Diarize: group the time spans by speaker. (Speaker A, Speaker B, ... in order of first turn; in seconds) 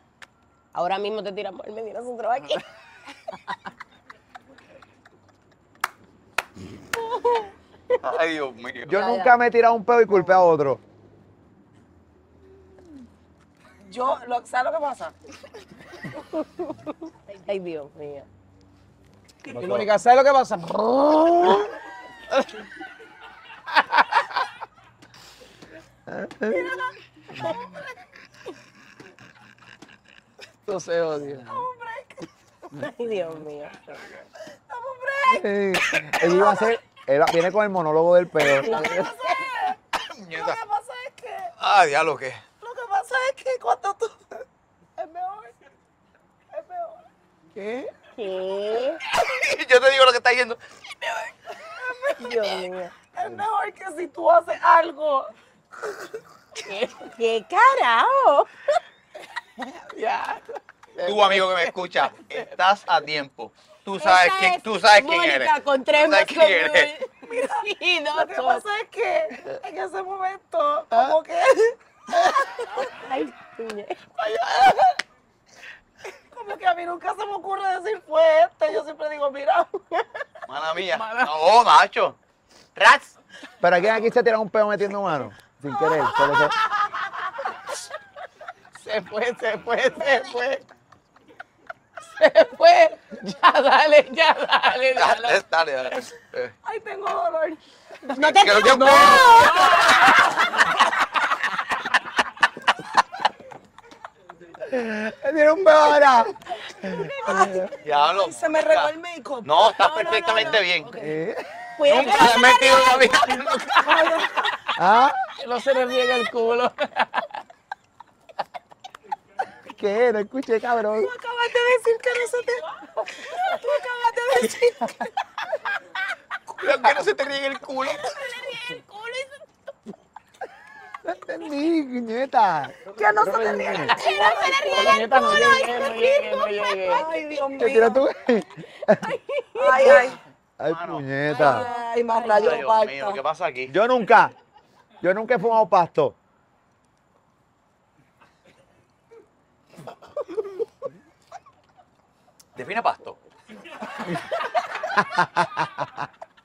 Speaker A: 0.7-2.6, 8.9-9.3, 16.4-18.3, 32.7-34.0, 38.7-39.2, 48.2-49.0, 52.1-52.9, 56.7-58.5, 64.0-68.6, 72.8-74.0, 98.1-99.7, 111.8-113.1, 128.2-129.4, 133.9-136.9, 138.9-140.1
Speaker B: 8.0-9.0, 40.2-40.6, 41.6-42.4, 49.1-50.6, 61.0-66.9, 80.5-82.2, 82.8-83.1, 95.0-96.5, 98.2-100.2, 107.8-108.9, 109.4-110.9, 111.8-114.2, 126.6-128.3, 140.7-141.6, 142.2-143.7, 152.6-153.2
Speaker C: 8.8-10.8, 19.5-19.9, 26.1-26.9, 35.3-38.8, 83.6-86.5, 104.6-107.7, 111.0-111.4, 114.8-115.2, 119.7-121.1, 131.1-134.0, 137.6-139.1, 140.6-141.7, 143.7-144.3, 145.0-146.2, 154.8-155.9
Speaker D: 13.8-15.2, 31.4-32.3, 34.7-36.7, 38.4-41.5, 42.6-44.4, 45.0-45.5, 46.5-47.0, 47.6-47.9, 51.6-55.3, 67.3-72.7, 74.2-75.0, 76.3-79.8, 96.6-97.6, 98.7-100.3, 106.9-111.2, 111.9-114.6, 120.9-125.1, 132.9-135.6, 136.8-138.0, 139.6-140.2, 141.3-143.2
Speaker E: 19.5-21.7, 30.7-31.7, 38.6-39.1, 59.6-61.7, 80.9-81.3, 88.8-90.6, 92.1-95.4, 98.8-99.9, 115.4-117.3, 133.3-134.0, 134.6-137.1